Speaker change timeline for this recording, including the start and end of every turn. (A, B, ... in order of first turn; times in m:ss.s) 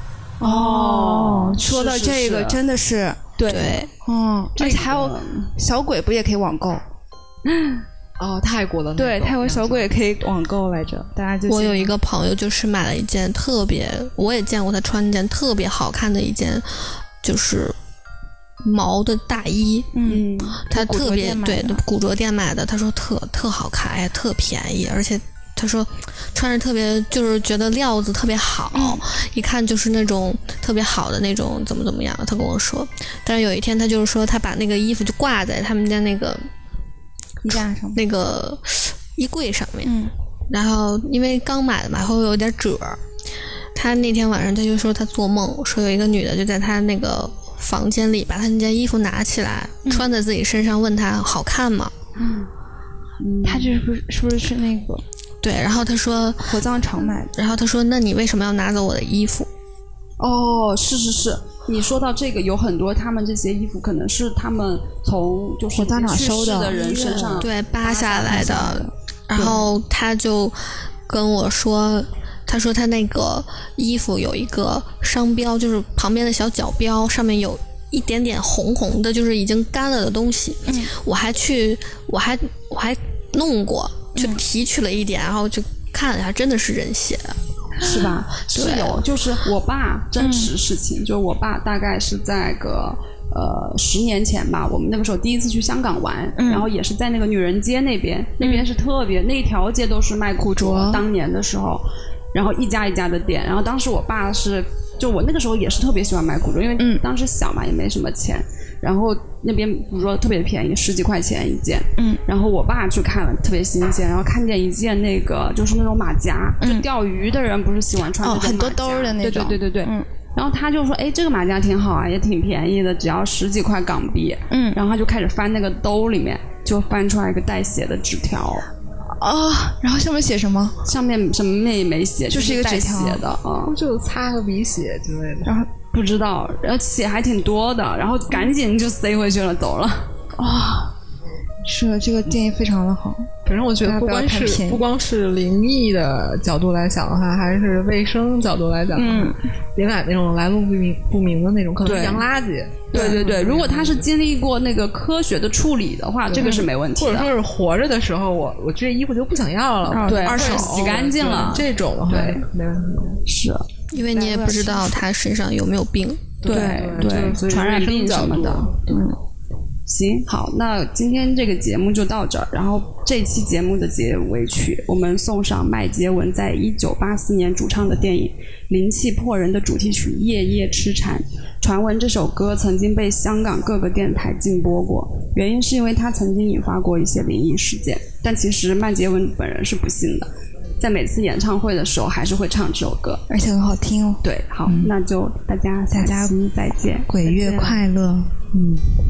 0:00.4-0:02.6 A
0:00.4-0:01.6 B
0:01.1-0:03.3 C
0:03.4-0:03.9 A
0:03.5-0:03.9 D
0:04.0-0:06.8 C
0:04.6-0:05.5 A
0:07.5-0:07.8 A
0:08.2-0:09.9 B
0:09.0-0:11.9 C
0:11.5-0:17.7 D
0:18.6-0:36.5 D
0:19.9-0:21.8 C
0:28.7-0:29.0 C
0:37.4-0:38.0 C
0:37.9-0:39.9 D
0:39.8-0:40.1 C
0:40.5-0:43.0 D
0:43.7-0:51.9 D
0:52.2-0:52.5 A
0:53.2-0:53.7 A
0:53.4-0:55.0 C
0:55.4-0:56.6 D
0:56.4-0:57.3 C
0:57.3-0:59.5 D
1:00.2-1:08.8 A
1:05.7-1:07.5 C
1:06.8-1:27.4 D
1:08.3-1:08.8 C
1:09.3-1:09.6 C
1:20.6-1:20.9 C
1:27.8-1:29.0 C
1:27.8-2:08.6 A
1:30.2-1:30.5 C
1:36.4-1:36.7 C
1:38.4-1:38.7 C
1:40.4-1:41.0 C
1:56.6-1:56.9 C
1:58.2-2:00.1 C
2:04.5-2:04.8 C
2:09.1-2:10.8 C
2:10.8-2:13.7 A
2:12.3-2:13.3 C
2:13.6-2:15.6 B
2:15.4-2:15.7 C
2:15.8-2:20.1 A
2:20.4-2:20.9 B
2:21.6-2:23.3 C
2:23.4-2:34.1 B
2:23.8-2:24.8 C
2:28.9-2:29.4 C
2:31.8-2:32.3 A
2:32.9-2:37.3 A
2:32.9-2:33.3 C
2:36.3-2:43.2 B
2:36.4-2:36.7 C
2:39.8-2:41.2 C
2:40.0-2:42.4 A
2:43.3-2:43.6 A
2:43.9-2:46.4 D
2:44.0-2:45.0 C
2:46.4-2:48.8 B
2:46.4-2:47.1 C
2:46.4-2:48.9 A
2:48.9-2:49.2 C
2:49.9-3:13.2 A
3:13.3-3:14.9 C
3:14.2-3:17.8 A
3:15.9-3:16.3 C
3:17.1-3:19.0 C